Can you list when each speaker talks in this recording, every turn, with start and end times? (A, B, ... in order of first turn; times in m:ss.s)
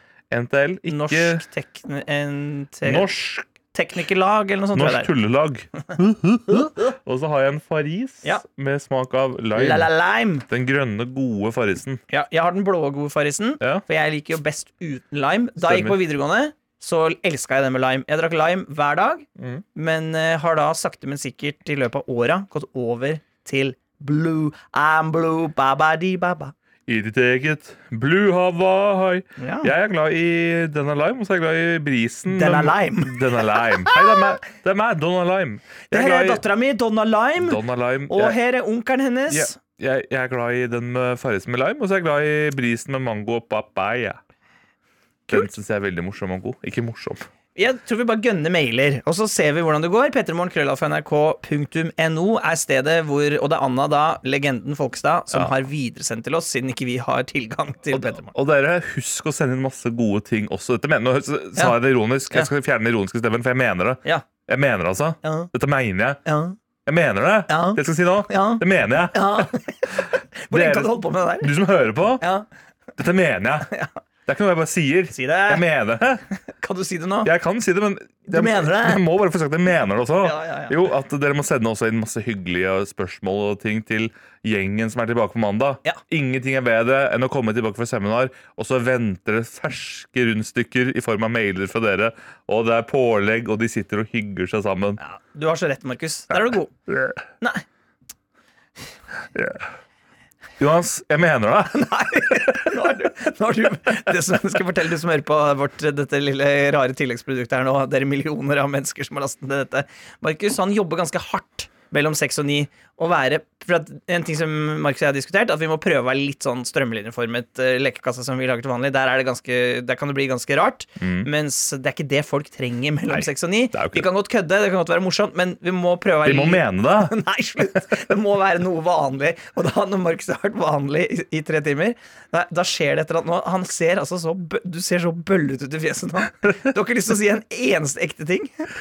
0:00.3-0:01.4 A
0:00.9-0:03.0 B
0:02.8-0:03.5 A
0:03.7-0:05.1 B
0:04.7-0:09.9 A
0:09.6-0:10.4 B
0:10.5-0:12.0 A
0:12.1-0:26.5 B
0:15.6-0:16.0 A
0:19.4-0:19.6 A
0:26.9-0:36.4 A
0:29.4-0:29.7 B
0:32.3-0:34.2 B
0:35.9-0:39.6 B
0:37.4-0:38.4 A
0:39.3-0:44.2 A
0:45.3-0:47.2 A
0:47.6-0:58.3 B
0:57.9-1:06.2 A
1:05.2-1:05.5 B
1:06.2-1:06.6 B
1:06.9-1:09.5 A
1:07.5-1:11.5 B
1:10.5-1:12.2 A
1:12.2-1:12.5 B
1:13.0-1:13.7 A
1:14.3-1:16.3 A
1:15.1-1:15.6 B
1:16.5-1:17.3 B
1:17.2-1:35.0 A
1:18.3-1:19.0 B
1:20.2-1:20.8 B
1:35.0-1:36.7 B
1:36.3-1:37.2 A
1:39.4-1:39.6 A
1:40.6-1:42.6 A
1:41.7-2:18.7 B
2:01.0-2:01.3 A
2:03.1-2:04.1 A
2:06.2-2:07.2 A